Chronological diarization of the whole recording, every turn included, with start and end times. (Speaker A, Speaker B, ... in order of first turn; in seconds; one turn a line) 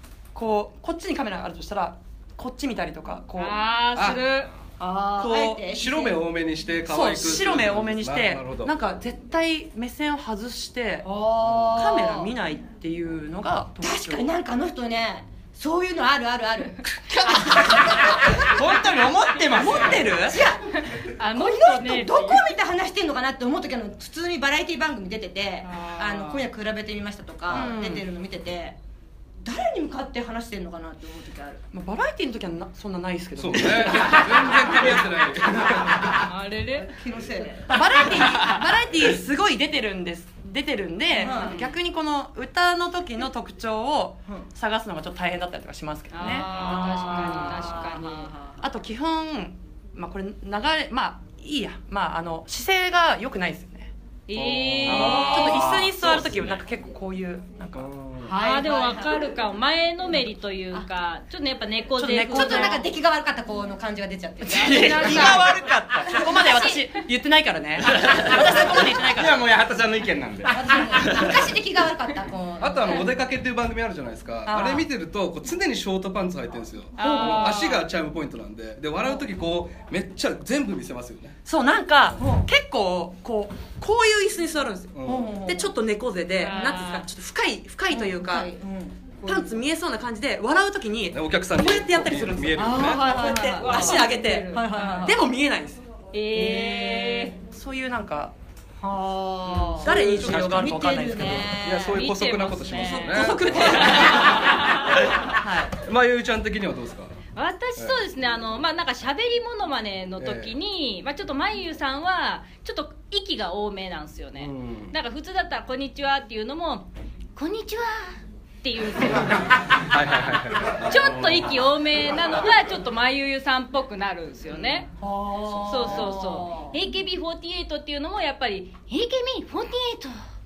Speaker A: 0.3-3.6
Speaker B: 3.4-4.5
Speaker C: 4.0-4.2
Speaker D: 4.8-6.2
Speaker A: 5.2-5.6
Speaker C: 5.6-8.7
Speaker A: 6.9-11.1
Speaker D: 11.0-12.3
Speaker A: 11.7-14.3
Speaker D: 13.8-18.6
Speaker E: 17.3-20.2
Speaker A: 19.5-20.4
Speaker D: 20.3-20.7
Speaker B: 20.8-22.5
Speaker D: 21.3-28.8
Speaker B: 25.6-26.5
Speaker A: 27.5-28.1
Speaker D: 29.4-31.6
Speaker A: 31.7-34.3
Speaker C: 33.4-36.2
Speaker B: 36.1-36.9
Speaker D: 36.9-37.8
Speaker A: 37.7-47.8
Speaker D: 41.1-41.6
Speaker B: 41.2-41.7
Speaker B: 46.1-48.3
Speaker D: 46.5-48.6
Speaker A: 48.6-53.9
Speaker B: 54.3-55.4
Speaker C: 54.3-55.2
Speaker E: 54.9-56.5
Speaker A: 54.9-57.9
Speaker D: 54.9-55.6
Speaker C: 57.8-58.3
Speaker D: 58.3-59.3
Speaker B: 58.3-62.9
Speaker A: 62.0-62.9
Speaker D: 62.3-65.4
Speaker E: 64.5-66.4
Speaker B: 64.6-65.5
Speaker A: 64.7-65.4
Speaker D: 66.1-66.8
Speaker A: 66.1-69.4
Speaker E: 67.8-71.5
Speaker D: 70.5-73.0
Speaker C: 72.6-81.3
Speaker A: 74.5-74.8
Speaker B: 77.0-77.9
Speaker D: 77.0-77.5
Speaker A: 81.5-84.9
Speaker D: 82.2-82.5
Speaker C: 85.0-85.3
Speaker D: 85.1-85.7
Speaker A: 85.5-88.5
Speaker B: 86.4-87.1
Speaker D: 87.9-89.5
Speaker A: 89.2-94.5
Speaker C: 91.1-93.2
Speaker B: 92.7-95.1
Speaker D: 92.8-95.1
Speaker A: 95.0-95.8
Speaker B: 96.1-97.3
Speaker D: 96.3-97.3
Speaker A: 97.4-98.3
Speaker D: 98.8-101.9
Speaker A: 99.8-101.6
Speaker C: 100.1-100.8
Speaker C: 101.4-104.0
Speaker B: 101.9-103.3
Speaker A: 102.8-104.5
Speaker D: 103.6-103.9
Speaker B: 103.9-104.8
Speaker A: 105.3-105.7
Speaker C: 105.8-107.1
Speaker B: 107.3-119.8
Speaker C: 107.8-108.0
Speaker C: 110.2-110.6
Speaker C: 114.4-114.9
Speaker C: 119.8-121.5
Speaker B: 120.8-124.9
Speaker D: 125.0-126.8
Speaker B: 125.6-130.2